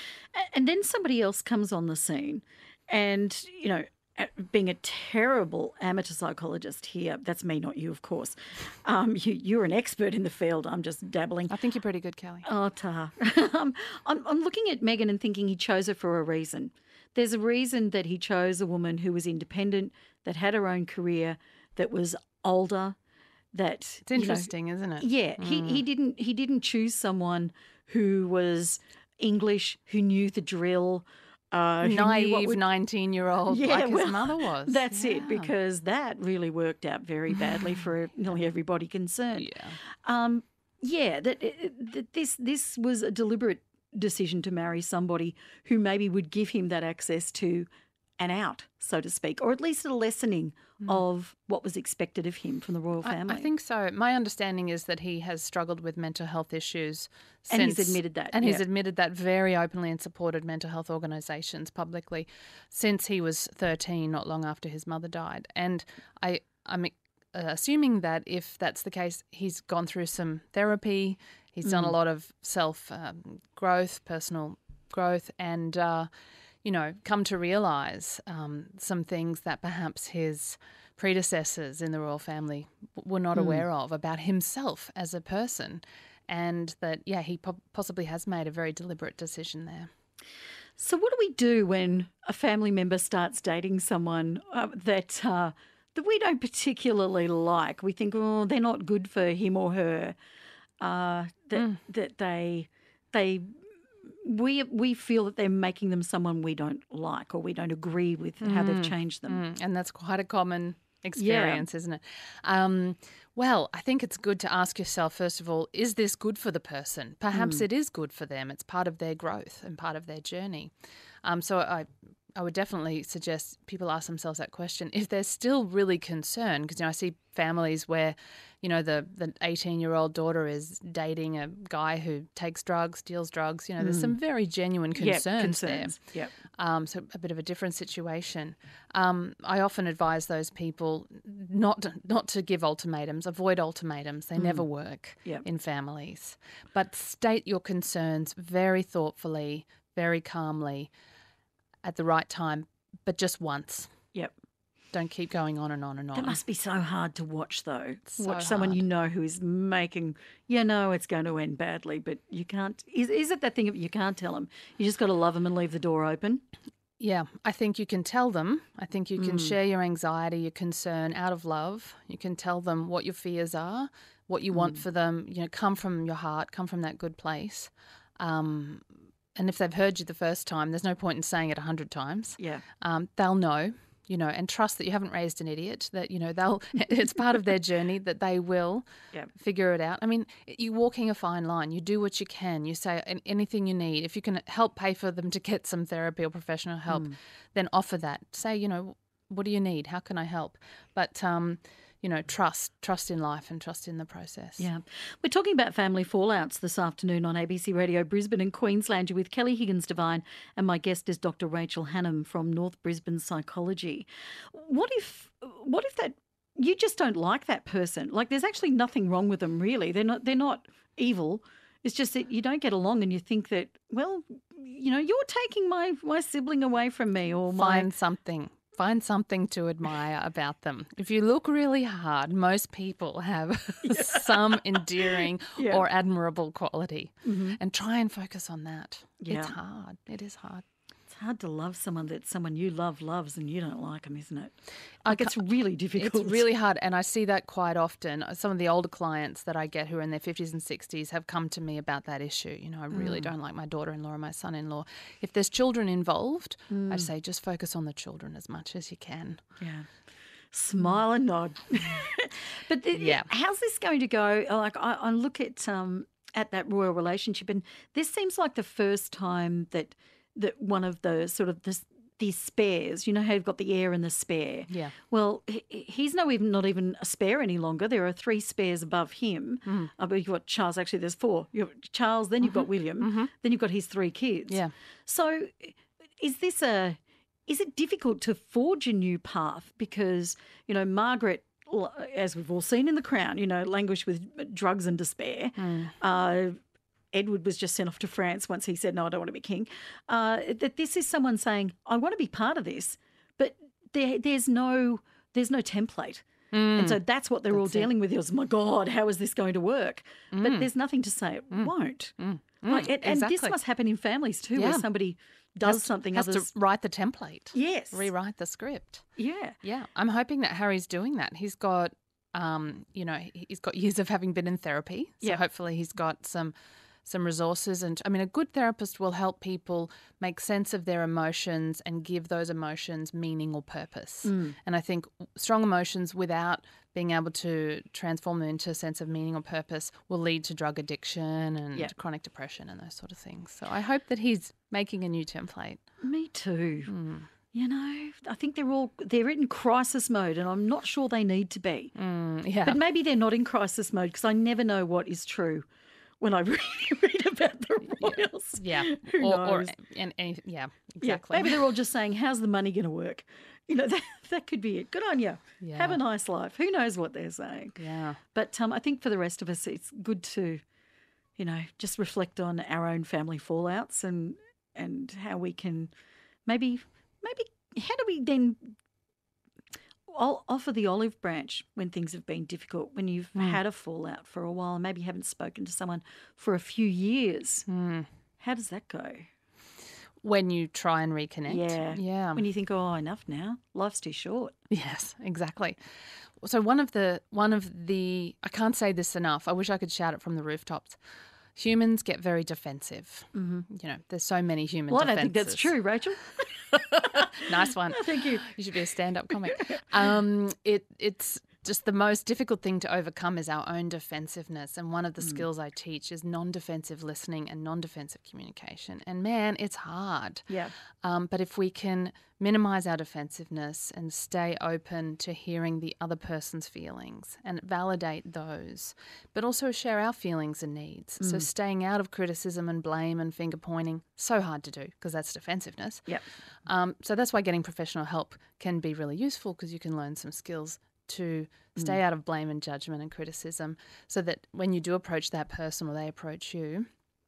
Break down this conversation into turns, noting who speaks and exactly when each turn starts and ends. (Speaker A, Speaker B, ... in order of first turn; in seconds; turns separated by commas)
Speaker A: 0.3-11.6, Speaker B: 11.5-12.5, Speaker A: 12.4-23.0, Speaker A: 23.5-32.6, Speaker B: 24.1-25.9, Speaker B: 31.8-35.5, Speaker A: 33.5-39.5, Speaker B: 39.4-39.8, Speaker A: 40.0-47.7, Speaker A: 48.2-53.5, Speaker B: 53.0-76.1, Speaker A: 57.5-58.6, Speaker A: 71.7-71.9, Speaker B: 76.6-89.9, Speaker A: 83.3-83.6, Speaker A: 90.8-100.2, Speaker A: 100.8-103.5, Speaker A: 104.1-109.4, Speaker B: 108.4-120.7, Speaker A: 111.2-111.7, Speaker A: 117.3-117.6, Speaker B: 121.2-136.0, Speaker A: 133.8-134.2, Speaker A: 135.0-136.3, Speaker B: 136.5-150.9, Speaker A: 144.4-144.7, Speaker B: 151.8-153.9, Speaker B: 154.9-156.4, Speaker A: 156.2-166.4, Speaker B: 158.1-158.8, Speaker B: 167.0-204.7, Speaker A: 169.2-169.6, Speaker A: 174.5-174.8, Speaker A: 182.4-182.6, Speaker A: 196.9-197.2, Speaker A: 204.6-227.9, Speaker B: 227.5-240.6, Speaker A: 233.9-235.9, Speaker A: 237.3-237.6, Speaker A: 239.2-239.6, Speaker A: 241.1-246.4, Speaker B: 245.1-259.4, Speaker A: 252.9-253.3, Speaker A: 256.7-257.1, Speaker A: 259.6-296.6, Speaker B: 262.9-263.3, Speaker B: 274.7-275.0, Speaker B: 279.7-279.9, Speaker B: 282.4-283.3, Speaker B: 295.6-295.9, Speaker A: 297.1-316.5, Speaker B: 306.5-307.0, Speaker B: 307.5-307.9, Speaker B: 310.3-310.7, Speaker B: 311.5-313.6, Speaker B: 314.6-314.9, Speaker B: 315.6-326.5, Speaker A: 317.5-318.1, Speaker A: 319.2-319.6, Speaker B: 327.1-345.8, Speaker A: 334.2-334.6, Speaker A: 346.0-346.9, Speaker B: 346.9-347.3, Speaker A: 347.5-351.9, Speaker B: 352.0-352.8, Speaker A: 352.6-355.7, Speaker A: 356.2-359.8, Speaker B: 358.0-361.7, Speaker A: 361.0-370.6, Speaker B: 365.6-366.0, Speaker B: 367.8-368.2, Speaker A: 371.4-375.9, Speaker A: 376.5-378.7, Speaker A: 380.1-387.7, Speaker B: 383.4-383.6, Speaker B: 387.7-388.1, Speaker A: 388.4-389.3, Speaker B: 390.2-392.4, Speaker A: 391.5-394.6, Speaker B: 394.7-395.8, Speaker B: 396.4-401.0, Speaker B: 401.6-405.8, Speaker A: 403.4-403.6, Speaker A: 404.9-408.6, Speaker B: 407.4-420.5, Speaker A: 409.4-409.8, Speaker B: 421.0-436.1, Speaker A: 431.2-431.5, Speaker B: 436.7-446.9